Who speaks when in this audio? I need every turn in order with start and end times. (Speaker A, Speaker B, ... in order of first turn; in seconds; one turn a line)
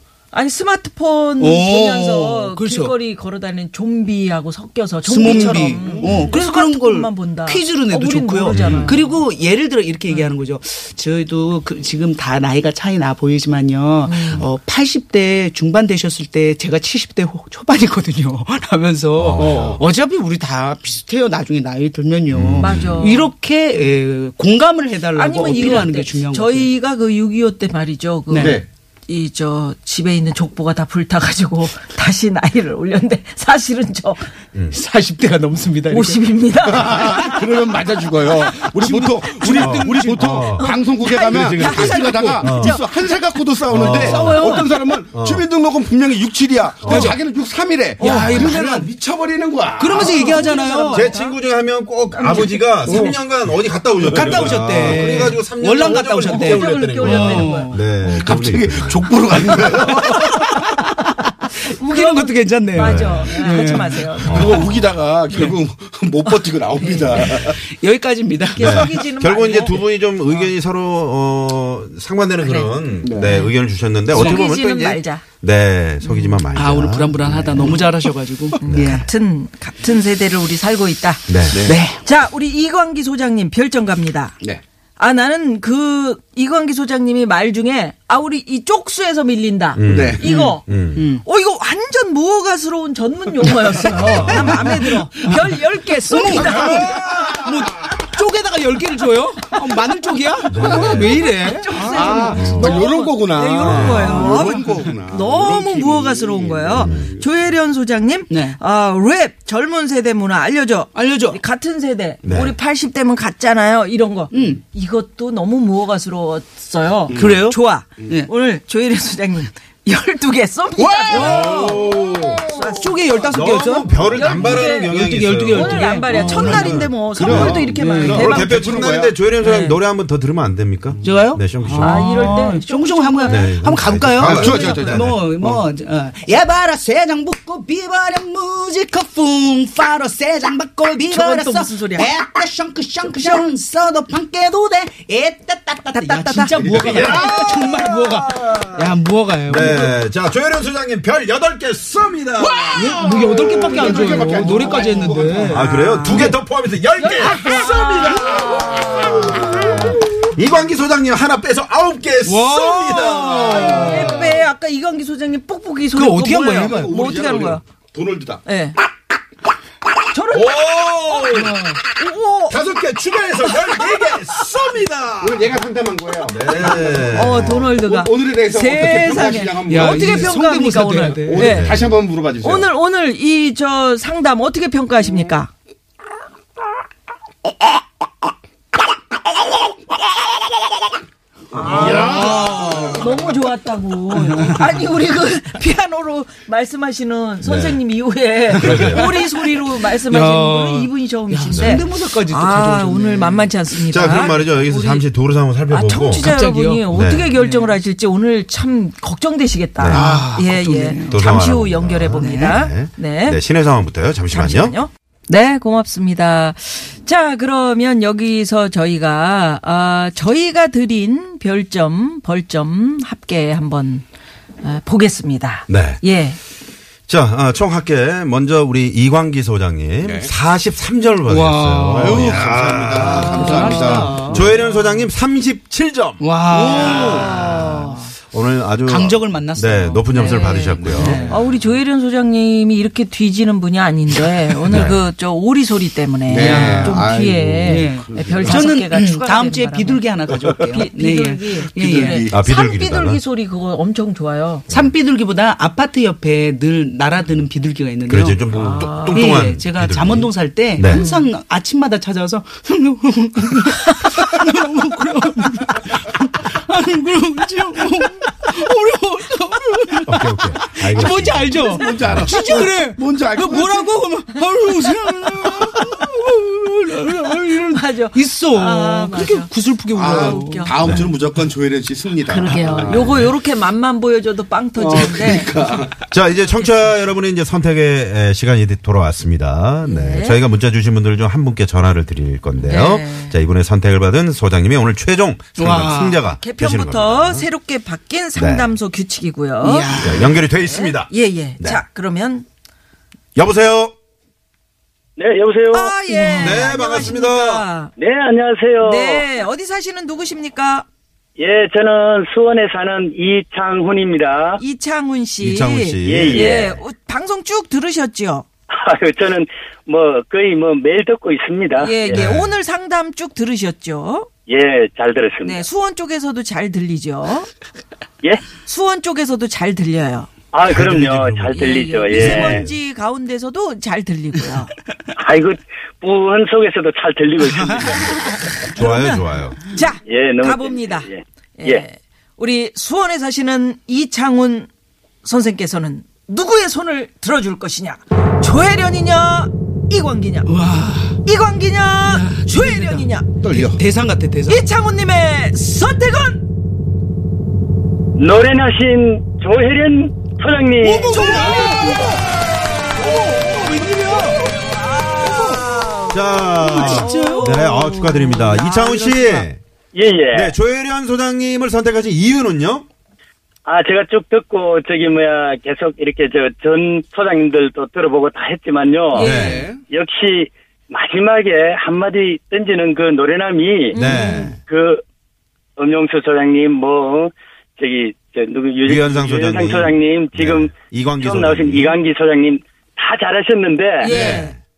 Speaker A: 0.3-9.2
Speaker B: 1.4-2.9
Speaker B: 5.1-26.6
Speaker C: 6.0-6.3
Speaker C: 8.5-8.9
Speaker A: 14.1-14.4
Speaker C: 19.1-19.8
Speaker D: 19.4-19.8
Speaker C: 22.3-23.1
Speaker A: 22.6-23.3
Speaker A: 25.1-34.3
Speaker B: 28.3-28.6
Speaker D: 28.4-28.6
Speaker C: 34.5-34.8
Speaker B: 34.7-36.2
Speaker A: 35.9-37.6
Speaker D: 36.6-50.5
Speaker B: 38.6-40.2
Speaker C: 39.4-42.8
Speaker A: 40.6-43.2
Speaker C: 43.7-44.5
Speaker A: 44.0-44.7
Speaker B: 44.0-44.7
Speaker C: 45.1-45.5
Speaker C: 46.8-47.1
Speaker B: 46.9-47.1
Speaker A: 48.0-48.5
Speaker B: 48.0-48.9
Speaker C: 48.1-48.4
Speaker B: 49.8-51.1
Speaker A: 49.9-51.4
Speaker C: 50.9-59.5
Speaker A: 52.1-53.1
Speaker D: 52.9-53.1
Speaker D: 54.1-54.5
Speaker B: 54.1-57.8
Speaker A: 56.1-58.3
Speaker D: 58.2-60.4
Speaker A: 61.6-65.5
Speaker B: 61.9-64.0
Speaker C: 62.7-63.3
Speaker C: 64.2-64.9
Speaker D: 64.2-67.6
Speaker A: 66.8-67.3
Speaker B: 67.7-68.8
Speaker A: 68.5-69.8
Speaker C: 68.6-77.8
Speaker A: 72.4-73.5
Speaker D: 73.0-73.4
Speaker A: 74.1-75.2
Speaker A: 76.0-76.4
Speaker B: 76.6-79.0
Speaker A: 78.6-84.4
Speaker C: 78.7-79.1
Speaker C: 81.3-81.6
Speaker D: 81.5-81.8
Speaker B: 81.7-82.0
Speaker A: 85.0-96.9
Speaker C: 89.8-91.0
Speaker D: 89.9-90.2
Speaker C: 93.9-94.8
Speaker B: 96.1-102.1
Speaker C: 100.5-101.3
Speaker A: 100.7-123.0
Speaker D: 101.8-107.2
Speaker C: 102.3-102.8
Speaker C: 103.6-104.3
Speaker C: 106.7-107.0
Speaker B: 111.0-111.4
Speaker C: 112.2-112.5
Speaker D: 117.1-117.5
Speaker B: 117.2-117.5
Speaker B: 121.0-121.9
Speaker C: 121.1-122.5
Speaker B: 122.8-126.3
Speaker C: 123.3-132.3
Speaker A: 124.1-125.0
Speaker A: 125.5-128.8
Speaker D: 126.2-129.2
Speaker B: 127.8-128.2
Speaker A: 129.4-129.8
Speaker B: 131.1-150.0
Speaker A: 131.8-133.5
Speaker C: 133.3-135.6
Speaker D: 134.2-135.5
Speaker A: 134.4-134.8
Speaker A: 141.1-142.1
Speaker A: 143.0-143.4
Speaker A: 145.9-146.8
Speaker C: 146.6-148.9
Speaker C: 149.4-153.0
Speaker B: 152.6-156.3
Speaker D: 152.7-155.7
Speaker A: 153.7-154.2
Speaker C: 155.5-164.4
Speaker A: 157.0-159.9
Speaker D: 158.2-159.9
Speaker B: 162.2-163.9
Speaker A: 163.5-167.6
Speaker B: 166.0-166.8
Speaker D: 166.6-168.4
Speaker A: 168.4-168.8
Speaker A: 170.1-172.6
Speaker C: 170.3-171.6
Speaker C: 172.5-175.5
Speaker D: 175.2-180.4
Speaker C: 176.3-177.7
Speaker A: 177.1-181.8
Speaker B: 179.7-181.4
Speaker D: 181.1-182.7
Speaker C: 181.4-181.8
Speaker A: 182.4-185.5
Speaker A: 191.5-205.1
Speaker D: 191.5-193.0
Speaker C: 197.4-197.8
Speaker C: 198.5-199.2
Speaker B: 200.1-200.8
Speaker B: 201.3-203.4
Speaker C: 201.5-201.8
Speaker C: 203.9-206.3
Speaker A: 205.7-213.4
Speaker B: 206.2-206.9
Speaker C: 206.9-207.3
Speaker C: 209.8-210.3
Speaker B: 209.9-211.1
Speaker C: 211.1-214.8
Speaker B: 212.2-212.5
Speaker A: 214.3-224.0
Speaker A: 224.6-226.4
Speaker C: 225.7-226.0
Speaker C: 227.1-241.3
Speaker D: 230.0-230.3
Speaker B: 231.3-232.2
Speaker D: 231.9-234.5
Speaker A: 233.1-234.8
Speaker B: 233.3-234.4
Speaker B: 236.2-237.0
Speaker D: 236.5-237.4
Speaker A: 236.8-237.9
Speaker B: 238.9-240.3
Speaker A: 240.1-250.1
Speaker D: 240.8-241.4
Speaker B: 240.9-241.4
Speaker C: 244.7-245.0
Speaker D: 246.3-248.8
Speaker B: 246.3-247.1
Speaker B: 247.7-252.2
Speaker D: 250.3-250.8
Speaker A: 250.7-254.7
Speaker D: 251.7-252.4
Speaker C: 252.3-253.2
Speaker C: 254.7-254.9
Speaker B: 254.7-258.4
Speaker C: 258.1-261.0
Speaker A: 258.5-259.4
Speaker D: 258.5-258.9
Speaker B: 259.1-277.5
Speaker A: 260.9-261.3
Speaker C: 270.1-272.3
Speaker A: 271.6-272.7
Speaker D: 271.6-273.9
Speaker A: 277.2-281.0
Speaker B: 278.1-280.6
Speaker D: 279.9-283.2
Speaker C: 280.8-281.1
Speaker A: 282.3-285.6
Speaker C: 282.9-283.3
Speaker D: 284.8-286.0
Speaker C: 286.0-297.5
Speaker A: 286.6-286.9
Speaker A: 289.9-290.4
Speaker A: 292.6-293.4
Speaker B: 295.6-296.2
Speaker A: 296.4-299.9
Speaker C: 298.3-298.8
Speaker B: 299.6-300.4
Speaker C: 299.9-301.8
Speaker A: 300.6-302.4
Speaker C: 303.3-303.9
Speaker E: 305.2-305.9
Speaker A: 305.7-307.9
Speaker C: 306.4-307.6
Speaker E: 308.0-309.3
Speaker A: 308.8-310.9
Speaker E: 311.4-314.6
Speaker A: 314.6-318.4
Speaker C: 315.4-316.8
Speaker E: 316.0-316.8
Speaker E: 318.7-322.2
Speaker A: 321.8-324.3
Speaker C: 322.1-322.6
Speaker E: 324.5-325.6
Speaker A: 325.4-327.5
Speaker A: 328.6-330.3
Speaker E: 330.5-332.6
Speaker C: 330.6-332.8
Speaker A: 331.5-334.7
Speaker E: 335.1-338.4
Speaker C: 338.7-339.6
Speaker A: 338.7-344.7
Speaker E: 340.1-341.8
Speaker A: 345.2-350.5
Speaker B: 350.5-351.1
Speaker A: 351.2-353.3
Speaker B: 352.2-353.0
Speaker D: 353.4-353.8
Speaker B: 353.5-354.6
Speaker A: 354.5-356.4
Speaker E: 358.1-361.1
Speaker B: 360.9-362.1
Speaker A: 361.1-362.2
Speaker B: 363.0-364.4
Speaker A: 364.7-369.5
Speaker B: 365.3-365.6
Speaker C: 366.1-369.6
Speaker B: 366.7-367.5
Speaker E: 369.9-370.5
Speaker C: 370.3-372.9
Speaker E: 373.6-384.0
Speaker A: 379.1-379.7
Speaker C: 379.1-379.7
Speaker D: 379.3-379.8
Speaker A: 383.9-384.6
Speaker C: 383.9-384.6
Speaker E: 384.7-385.0
Speaker E: 385.8-394.1
Speaker C: 388.8-392.0
Speaker A: 394.0-394.6
Speaker C: 394.1-394.5